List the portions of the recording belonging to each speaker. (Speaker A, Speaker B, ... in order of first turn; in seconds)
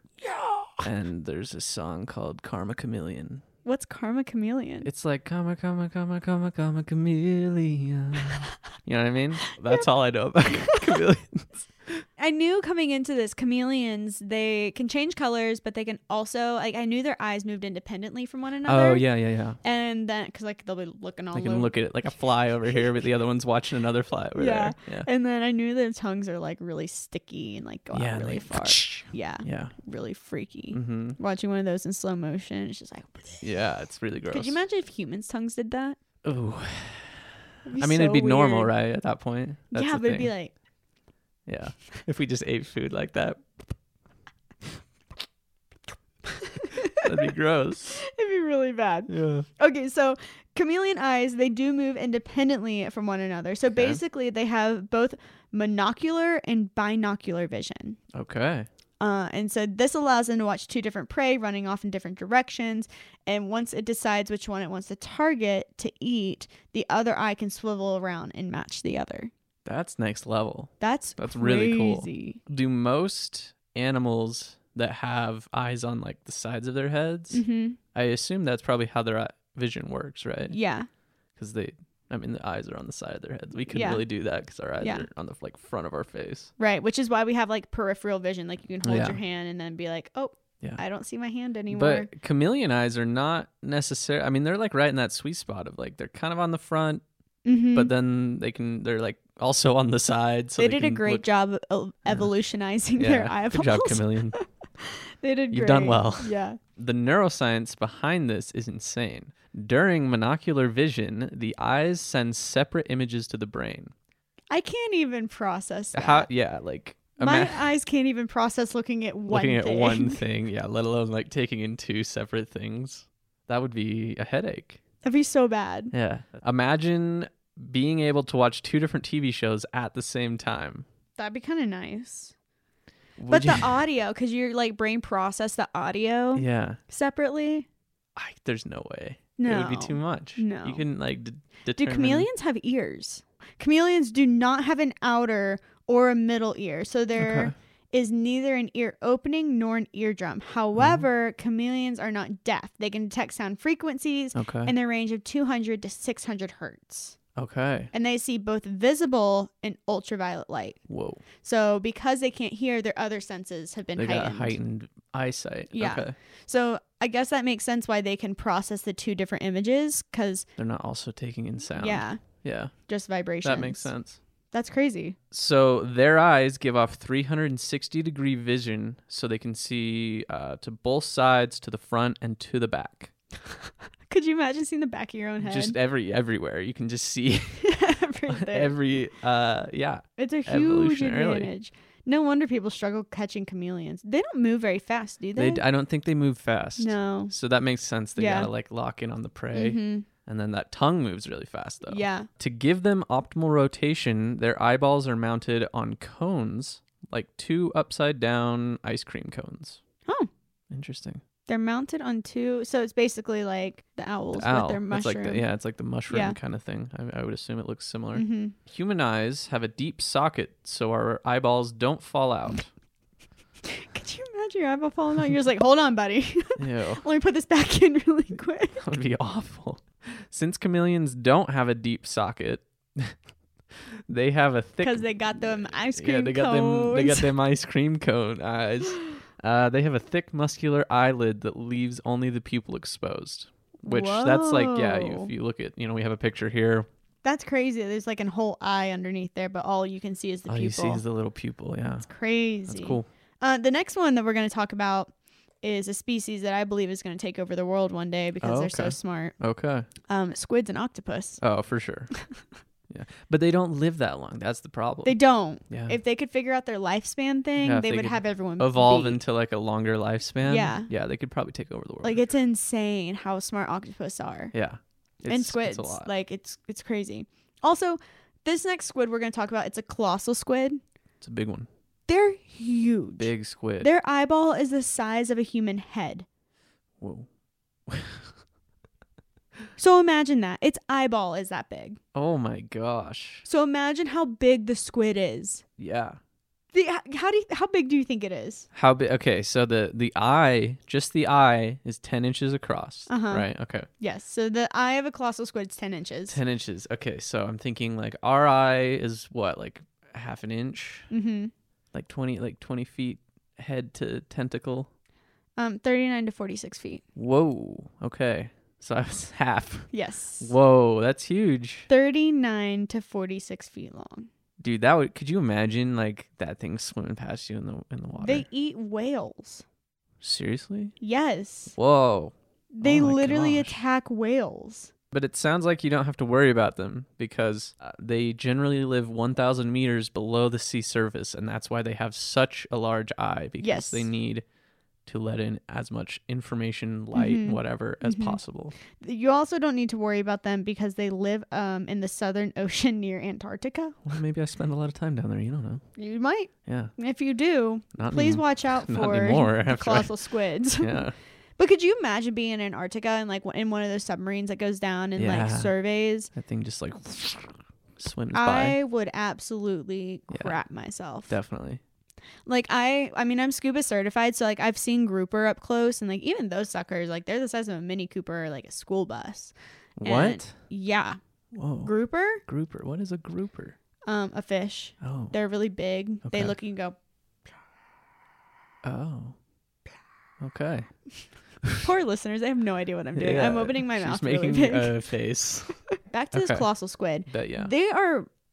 Speaker A: 0.2-0.8, 3.6-4.9, 12.2-19.0, 19.6-21.7, 24.4-33.4, 34.3-36.0, 37.6-38.7, 39.7-40.5, 46.4-47.1, 48.0-58.0, 59.0-69.3, 70.8-72.4, 77.3-77.8, 80.5-80.9, 83.7-84.0, 84.8-85.1, 86.6-92.1, 97.4-97.9, 100.6-106.6, 114.5-116.3, 117.2-120.2, 125.0-125.9, 131.2-132.3, 133.3-137.7, 139.4-140.8, 141.8-157.2, 157.9-160.8, 161.4-164.6, 165.7-170.4, 171.8-172.2, 172.9-173.9, 174.5-175.2, 184.1-185.8, 187.6-188.8, 190.2-195.6, 196.8-197.3, 198.2-198.5, 199.5-200.1, 201.9-202.3, 211.5-215.4, 216.1-216.4, 218.1-218.5, 223.6-228.8, 234.8-237.3, 243.8-245.3, 247.2-251.0, 252.0-255.1, 255.6-259.3, 260.1-261.4, 265.0-269.2, 270.4-270.9, 272.0-274.5, 275.3-280.8, 282.1-286.2, 289.8-292.0, 293.4-295.6, 296.7-298.7, 303.1-303.5, 304.0-306.4, 311.1-311.5, 315.6-317.0, 319.9-320.5, 321.9-324.3, 328.2-329.6, 331.0-331.7, 332.7-334.9, 343.6-344.1, 347.1-348.4, 349.0-354.0, 356.0-361.0, 361.6-366.3, 368.3-371.4, 372.4-381.2, 381.8-382.4, 384.1-386.9, 391.8-394.9, 395.9-398.3
Speaker B: 0.8-3.4, 4.8-12.1, 18.6-19.6, 21.3-25.1, 27.9-29.7, 30.7-31.2, 33.4-34.6, 36.2-40.3, 41.5-43.4, 46.9-48.0, 49.1-49.5, 53.7-54.0, 58.1-58.7, 69.6-77.4, 77.9-80.5, 81.4-86.5, 88.8-89.2, 91.7-97.0, 97.7-101.2, 103.0-104.4, 105.5-113.9, 115.9-117.7, 119.3-124.8, 125.9-130.8, 133.2-133.8, 136.3-136.8, 138.2-142.3, 147.2-147.5, 150.8-151.0, 154.3-154.7, 157.3-157.9, 160.9-161.2, 163.9-166.1, 170.6-172.7, 173.4-174.2, 175.3-183.1, 185.4-187.6, 188.3-191.5, 195.3-209.8, 210.7-211.2, 214.3-222.7, 226.6-227.1, 228.8-233.2, 233.7-246.9, 250.5-252.1, 252.7-253.1, 258.4-259.9, 261.4-262.1, 262.9-265.2, 265.7-266.0, 267.6-272.2, 274.5-276.1, 281.2-281.7, 283.2-283.9, 287.0-287.3, 287.9-288.3, 292.1-293.4, 295.8-296.2, 298.7-303.9, 306.3-311.1, 311.9-314.9, 317.1-321.9, 324.6-328.5, 330.2-330.9, 331.7-333.8, 335.1-344.4, 345.1-348.8, 354.1-355.8, 356.6-356.9, 357.9-360.1, 360.8-361.1, 365.1-365.7, 366.3-368.8, 370.3-370.6, 371.3-371.8, 380.0-380.6, 381.5-381.9, 382.4-383.8, 385.0-385.3, 386.2-386.5, 388.8-389.4, 390.4-390.9, 393.1-395.8, 396.3-396.7, 397.2-397.7